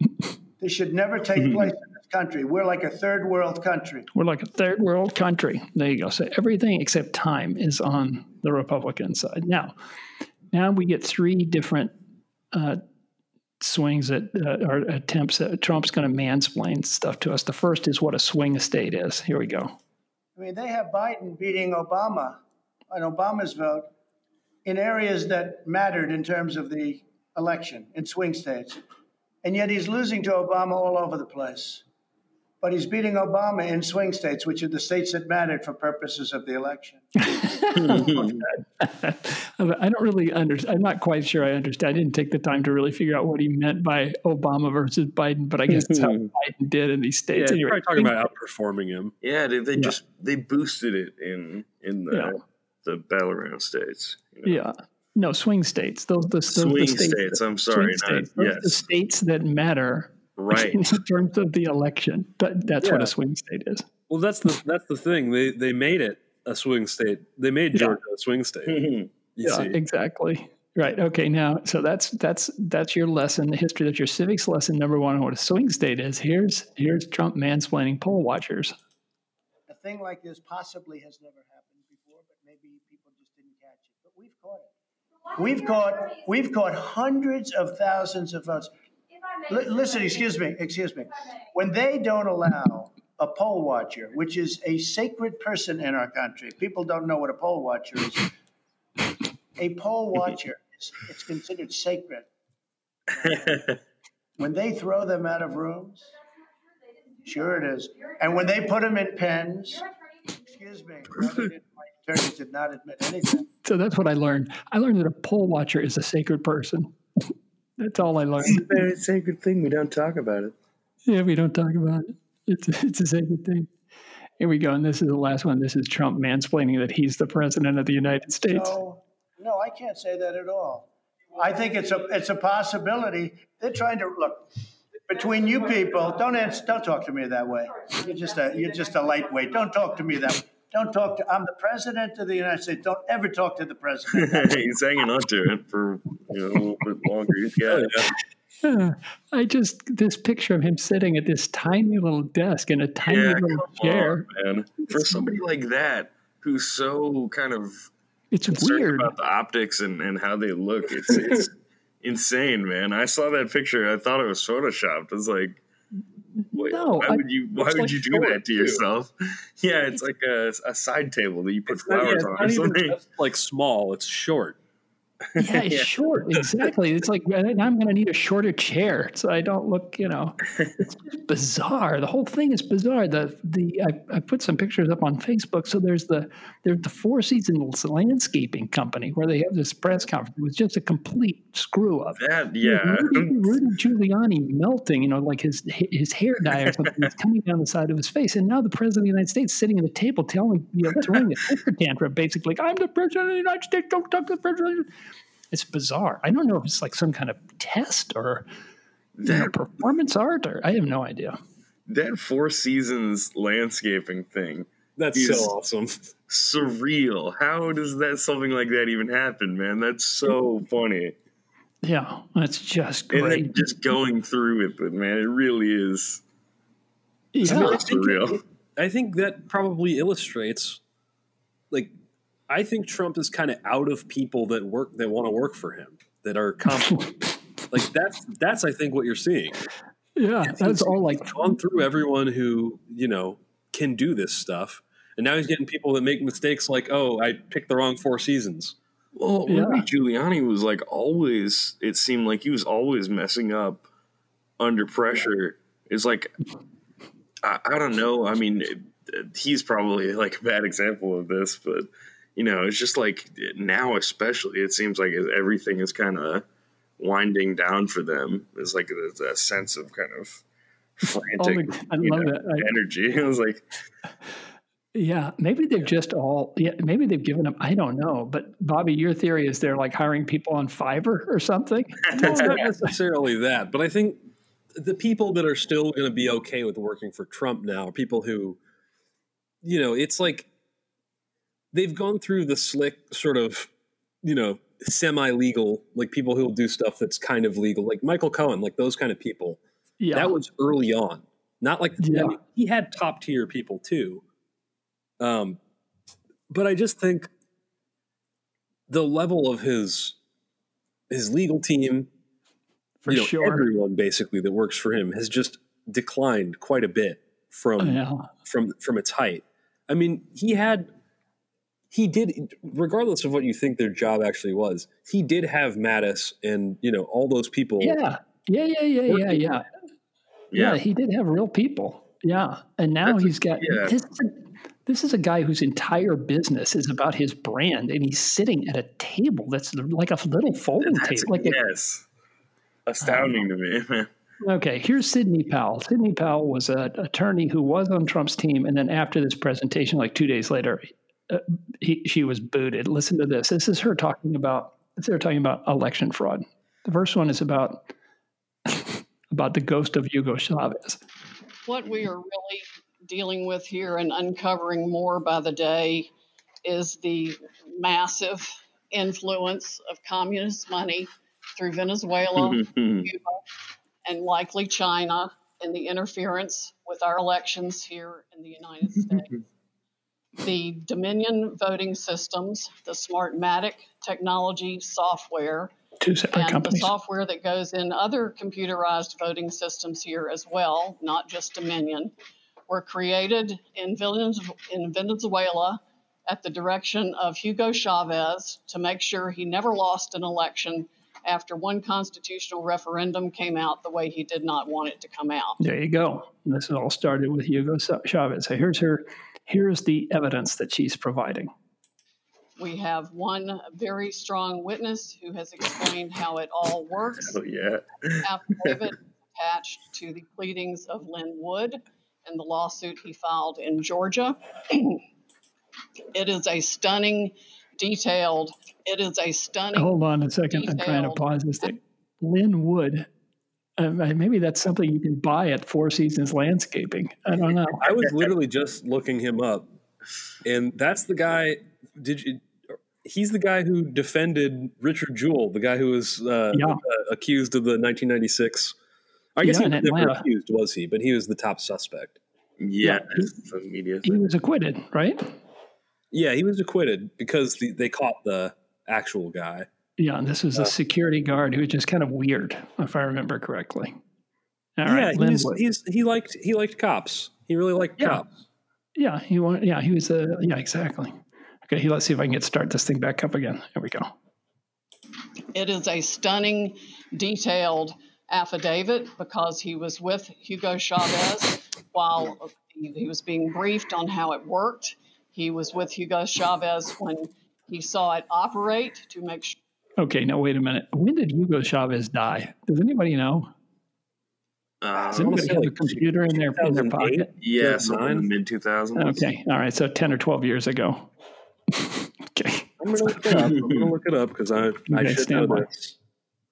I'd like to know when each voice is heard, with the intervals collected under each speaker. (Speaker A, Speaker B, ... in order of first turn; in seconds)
Speaker A: 0.6-4.1, 20.4-23.9, 24.6-28.8, 29.4-31.8, 32.6-37.0, 79.7-84.7, 85.3-88.7, 89.5-98.3, 99.6-102.3, 103.1-103.7, 104.4-106.1, 107.2-109.9, 110.4-113.5, 128.5-134.5, 135.1-144.6
Speaker B: 4.1-9.7, 10.5-11.9, 12.5-12.8, 13.6-19.7, 37.2-48.1, 54.4-63.9, 69.4-78.7, 113.6-116.9, 117.8-118.8, 121.1-123.7, 124.4-128.8, 148.6-154.2, 154.9-155.2, 158.3-159.1, 166.5-168.1, 175.4-180.4, 181.1-204.9, 205.5-208.4, 209.2-211.4, 221.8-223.6, 227.3-227.8, 240.2-241.3, 249.5-249.8, 271.4-272.7, 274.9-282.9, 300.0-300.3, 302.0-302.4, 313.0-313.6, 317.8-318.3, 327.8-329.6, 330.5-341.6, 343.0-343.4, 344.4-357.9, 358.7-361.0, 386.0-386.9, 405.6-411.5, 429.7-433.1, 433.8-437.8, 446.5-446.8, 449.4-450.2, 452.8-453.3, 454.0-455.3, 460.0-463.9, 464.8-465.6, 468.9-471.1, 471.7-474.1, 490.0-493.5, 495.1-497.3, 498.9-501.1, 501.7-503.3, 504.9-505.7
Speaker C: 37.7-38.4, 45.7-46.3, 49.2-54.6, 56.5-58.8, 60.4-61.0, 68.7-69.1, 103.4-103.7, 118.4-120.5, 144.1-148.0, 153.0-157.9, 158.5-165.6, 166.5-172.9, 175.3-175.9, 192.2-193.6, 209.2-209.5, 211.9-215.5, 216.3-221.2, 223.1-226.2, 227.4-228.4, 249.2-253.8, 254.6-256.3, 257.4-266.4, 267.0-270.4, 271.0-273.6, 330.5-330.8, 333.1-333.9, 340.8-342.1, 342.9-344.1, 372.4-373.1, 417.2-418.8, 452.6-454.2, 494.8-495.6, 497.4-499.3, 503.4-503.8
Speaker D: 47.3-49.1, 62.8-63.1, 64.1-68.8, 69.3-69.8, 147.7-148.1, 168.1-168.8, 171.7-174.6, 215.0-216.0, 227.4-230.8, 232.5-237.1, 237.7-239.6, 240.4-248.8, 282.1-284.2, 284.7-288.6, 289.6-290.5, 291.7-293.7, 294.2-299.6, 300.1-304.2, 305.2-305.6, 306.5-307.3, 308.9-310.1, 311.1-312.1, 313.1-320.9, 321.9-328.0, 329.1-329.4, 437.8-439.7, 440.4-448.8, 449.3-452.2, 456.1-459.7, 464.9-468.3, 495.0-498.3, 502.8-505.9
Speaker E: 361.6-366.1, 366.6-373.4, 374.0-379.3, 380.4-385.7, 386.3-392.1, 392.7-405.6, 412.6-417.4, 418.2-425.0, 426.1-430.0, 430.5-431.7, 475.5-489.6